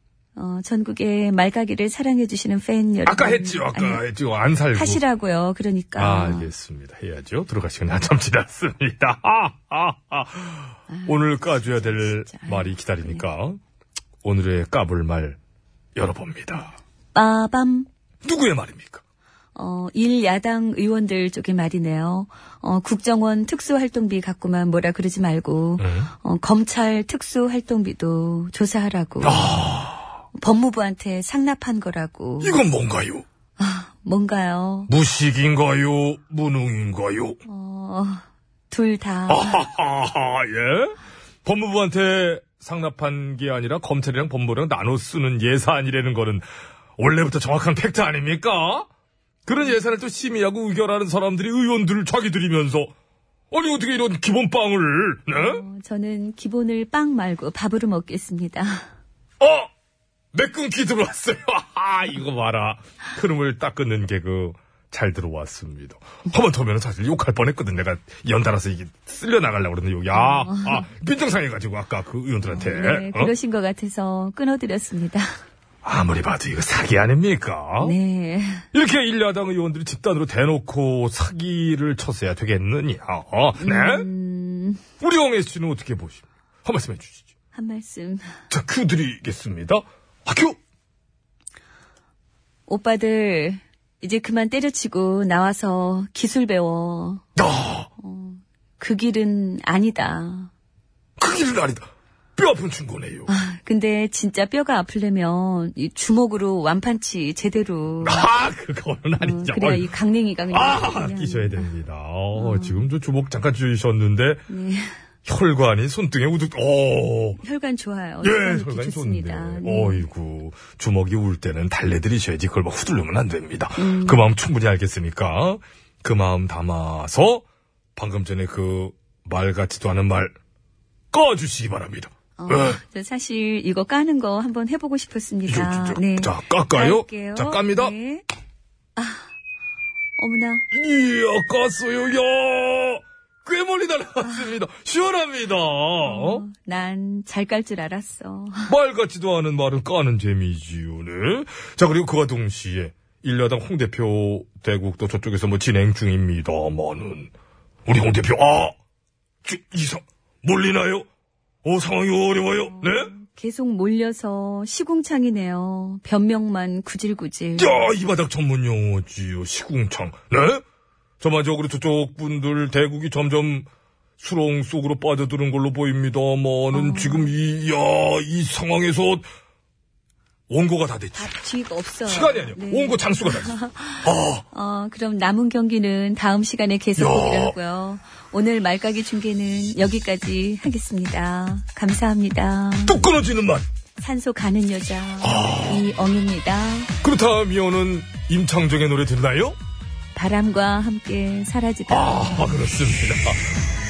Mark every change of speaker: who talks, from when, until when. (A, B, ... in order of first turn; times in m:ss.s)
0:00.4-0:04.0 A
0:03.0-0:05.0 B
0:04.7-0:06.5 A
0:06.0-0:13.6 B
0:10.9-0:13.2 A
0:14.2-0:15.4 B
0:16.0-0:16.8 B
0:17.1-0:17.9 A
0:18.2-0:19.0 B
0:19.5-0:29.6 A
0:25.8-0:26.1 B
0:29.2-0:30.1 B
0:30.4-0:32.6 A
0:32.4-0:33.2 B
0:33.6-0:34.9 A
0:34.9-0:37.4 B
0:37.4-0:39.6 A
0:39.3-0:46.4 B
0:47.0-0:48.9 B
0:49.4-0:52.9 B
0:53.5-0:55.6 B
0:55.3-0:58.8 A
0:59.4-0:59.7 B
1:00.3-1:13.3 B
1:10.2-1:10.8 A
1:12.5-1:15.2 A
1:15.8-1:18.0 B
1:17.8-1:18.6 A
1:18.7-1:24.1 B
1:23.6-1:24.8 A
1:25.0-1:27.2 B
1:27.5-1:28.2 A
1:28.5-1:30.6 B
1:32.7-1:37.2 A
1:37.4-1:37.9 B
1:38.0-1:40.5 A
1:41.2-1:41.8 B
1:42.4-1:43.3 B
1:43.3-1:48.3 A
1:48.0-1:49.9 B
1:49.2-1:51.7 A
1:50.5-1:54.4 B
1:52.3-1:52.9 A
1:54.5-1:55.0 A
1:55.2-1:57.4 B
1:57.4-2:00.1 A
1:58.2-2:07.4 B
2:03.8-2:04.2 A
2:08.0-2:10.3 B
2:11.1-2:12.8 B
2:12.4-2:18.2 A
2:15.5-2:17.9 B
2:19.0-2:19.2 A
2:20.2-2:20.6 A
2:20.7-2:26.4 B
2:24.3-2:24.6 A
2:26.0-2:28.7 A
2:28.7-2:37.3 B
2:37.9-2:38.8 B
2:39.4-2:41.1 B
2:41.6-2:43.1 B
2:42.7-2:47.9 A
2:47.6-2:50.6 B
2:51.2-2:53.7 B
2:54.2-2:59.3 B
2:56.7-2:57.3 A
3:00.5-3:01.3 B
3:01.1-3:13.0 A
3:02.0-3:04.4 B
3:07.0-3:07.6 B
3:12.8-3:13.6 B
3:14.0-3:16.9 A
3:15.2-3:15.9 B
3:17.0-3:19.6 B
3:20.1-3:22.6 A
3:21.9-3:23.6 B